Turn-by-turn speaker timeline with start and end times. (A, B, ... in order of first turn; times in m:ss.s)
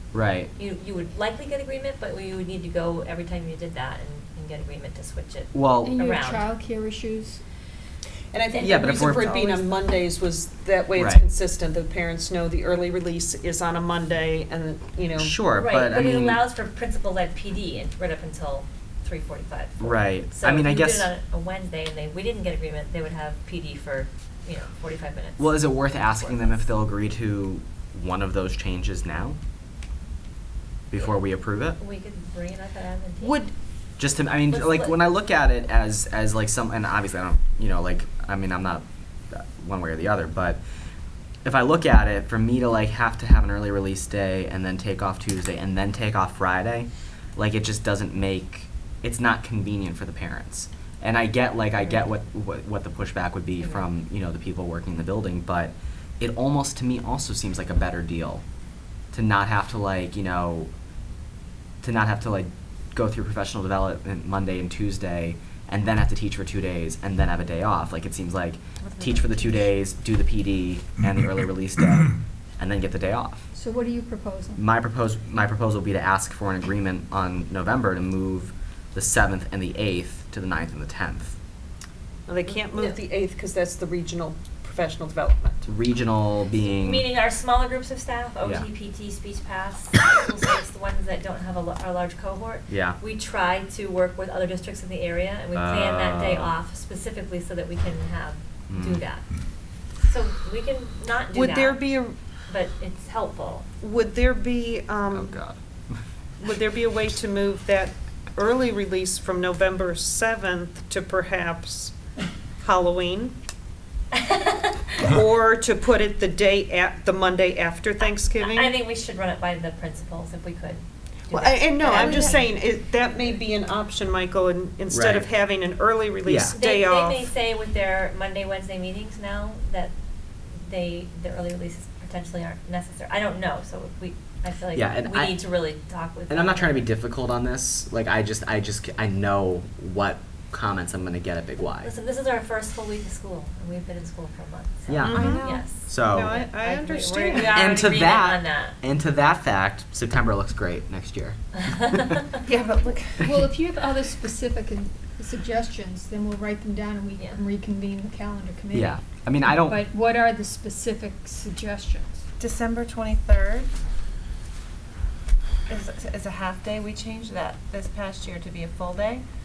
0:00.1-0:00.5 A
0:00.6-0:06.5 B
0:05.5-0:06.0 A
0:05.8-0:07.4 C
0:08.3-0:15.4 D
0:08.6-0:08.9 B
0:08.6-0:09.7 A
0:11.0-0:11.2 A
0:15.2-0:16.4 A
0:15.6-0:26.6 B
0:19.8-0:21.1 A
0:25.4-0:29.4 A
0:30.9-0:31.8 A
0:31.0-0:33.5 B
0:33.2-0:33.5 D
0:34.0-0:40.6 A
0:34.5-0:35.0 B
0:41.4-0:58.4 A
0:53.6-0:53.9 B
0:59.1-1:00.7 A
1:01.8-1:13.4 A
1:09.1-1:09.4 E
1:13.5-1:14.6 C
1:14.6-1:21.4 A
1:22.3-1:25.7 D
1:22.5-1:23.0 B
1:25.7-1:27.1 A
1:26.6-1:39.3 B
1:32.7-1:33.0 A
1:35.5-1:36.6 A
1:38.7-1:39.0 A
1:40.0-1:41.8 B
1:41.3-1:42.2 D
1:42.5-1:43.7 B
1:43.8-1:45.4 D
1:45.1-1:46.0 A
1:46.4-1:51.9 D
1:52.6-1:53.4 D
1:54.2-1:55.1 B
1:55.1-1:58.8 D
1:58.4-2:02.5 B
2:01.3-2:07.3 D
2:04.9-2:05.3 A
2:06.2-2:06.6 A
2:06.5-2:09.9 B
2:10.6-2:16.9 B
2:14.8-2:15.4 A
2:16.3-2:21.9 A
2:21.8-2:28.8 B
2:24.9-2:26.4 A
2:25.0-2:25.6 E
2:25.1-2:27.7 D
2:27.4-2:32.2 A
2:31.6-2:32.3 B
2:32.4-2:33.4 E
2:33.2-2:42.2 C
2:38.7-2:39.9 A
2:42.4-2:43.7 E
2:45.7-2:49.2 E